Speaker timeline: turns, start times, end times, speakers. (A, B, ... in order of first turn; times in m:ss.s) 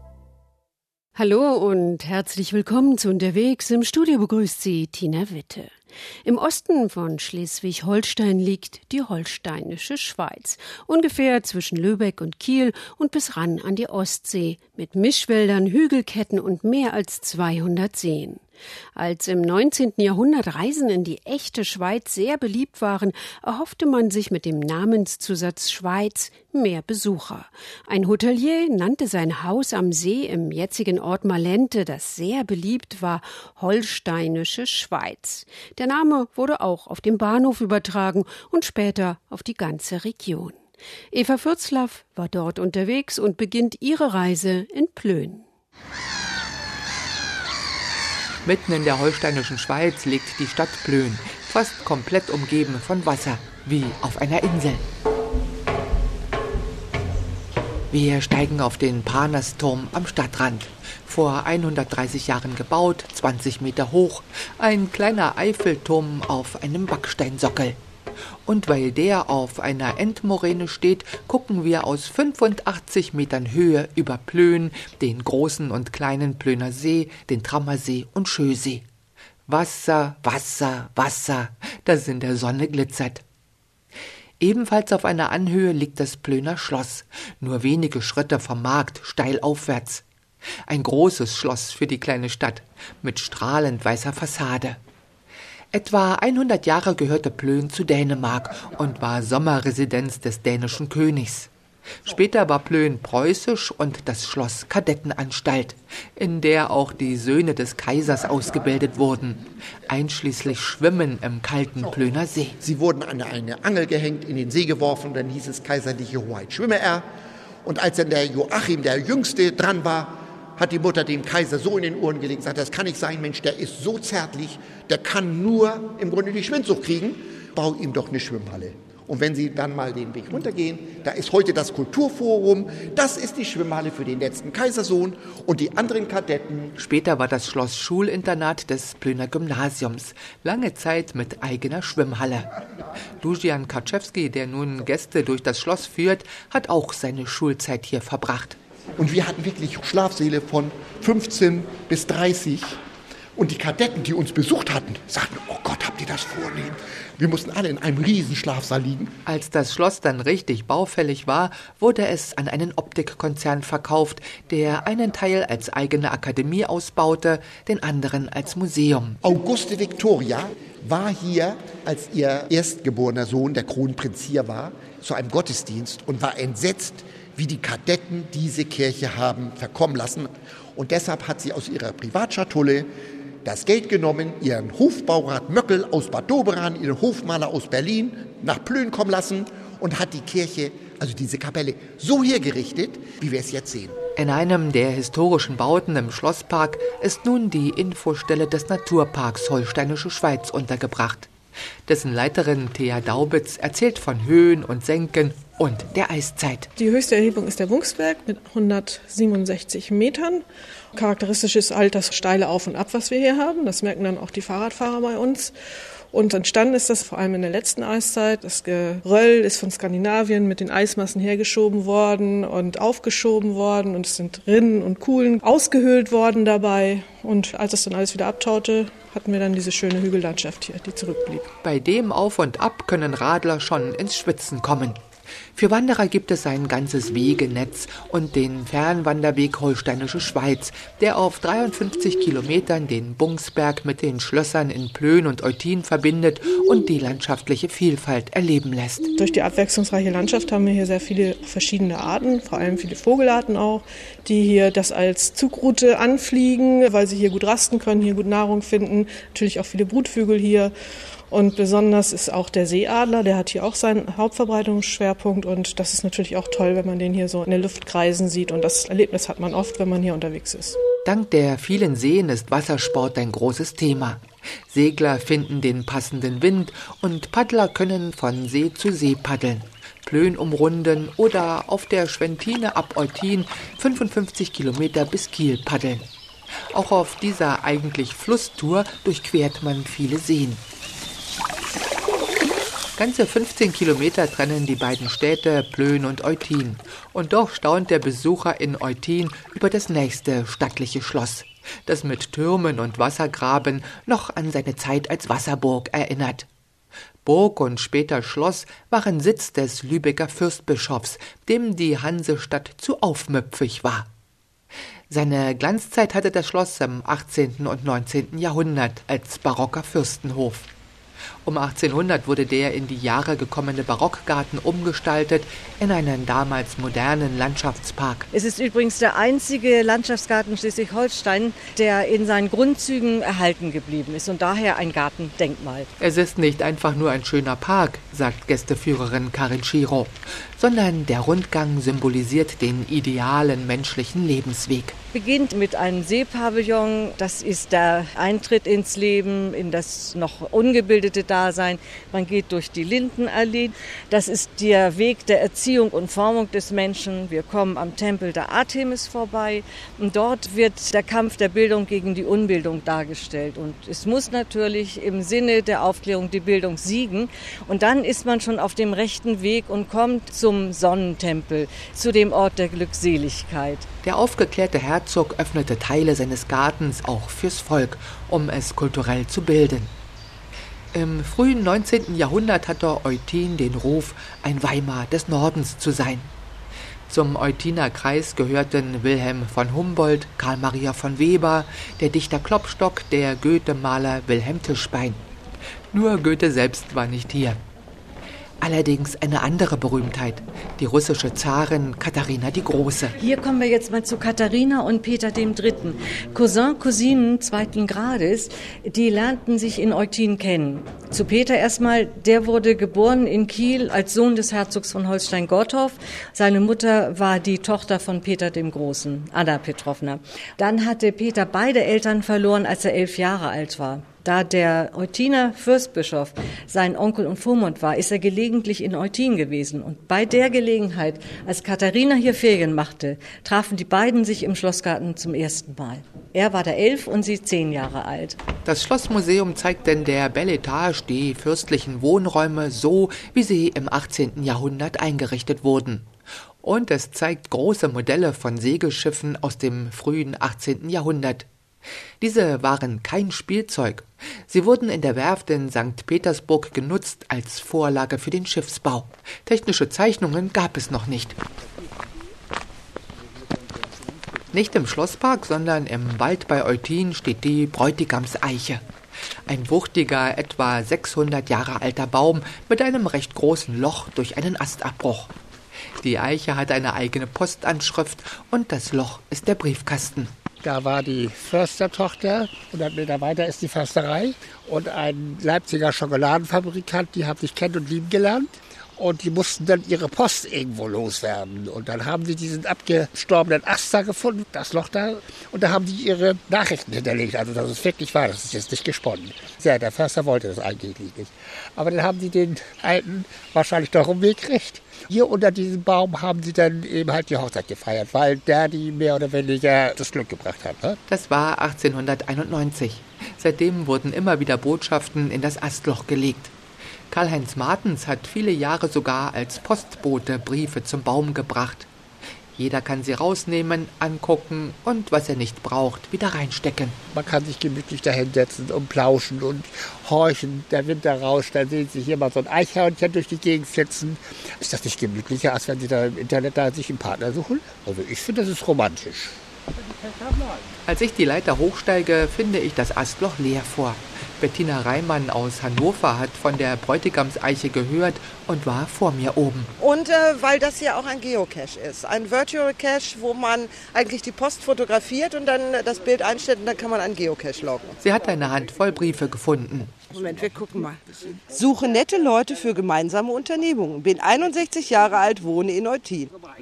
0:01.1-0:05.7 A
0:06.2-0:18.4 A
0:19.0-0:40.6 A
0:41.1-0:45.4 A
0:48.4-0:54.8 B
0:57.9-1:07.8 B
1:08.4-1:18.8 B
1:19.5-1:23.2 B
1:24.4-1:30.0 B
1:30.7-1:34.8 B
1:35.7-1:41.5 B
1:42.0-1:52.6 B
1:52.6-1:57.0 C
1:57.6-2:16.7 C
2:16.8-2:22.5 B
2:23.2-2:28.6 B
2:29.0-2:32.8 C
2:33.4-2:39.1 C
2:39.2-2:49.2 B
2:49.2-3:02.9 C
3:03.4-3:14.0 C
3:14.2-3:21.3 B
3:21.9-3:26.7 B
3:26.8-3:30.4 D
3:30.9-3:35.5 D
3:36.1-3:51.4 D
3:51.6-3:55.0 B
3:55.5-4:09.1 B
4:09.2-4:20.7 D
4:21.3-4:30.8 D
4:31.0-4:46.1 B
4:46.7-4:50.6 B
4:53.0-5:06.5 B
5:07.2-5:14.1 B
5:15.1-5:20.7 B
5:21.4-5:28.3 B
5:28.3-5:35.9 E
5:36.0-5:45.0 B
5:45.1-6:13.8 E
6:14.0-6:19.9 B
6:20.9-6:26.3 B
6:27.1-6:35.2 B
6:35.9-6:37.6 B
6:38.6-6:43.2 B
6:43.2-7:18.4 E
7:18.6-7:26.1 B
7:26.6-7:31.5 B
7:32.2-7:41.4 B
7:44.5-7:48.8 B
7:49.5-7:55.3 B
7:56.0-8:00.3 B
8:00.6-8:31.0 F
8:31.1-8:36.5 B
8:37.1-8:41.9 B
8:42.6-8:47.0 B
8:47.1-8:59.3 F
9:00.8-9:09.7 B
9:09.8-9:17.9 G
9:18.0-9:19.9 B
9:20.1-9:26.3 G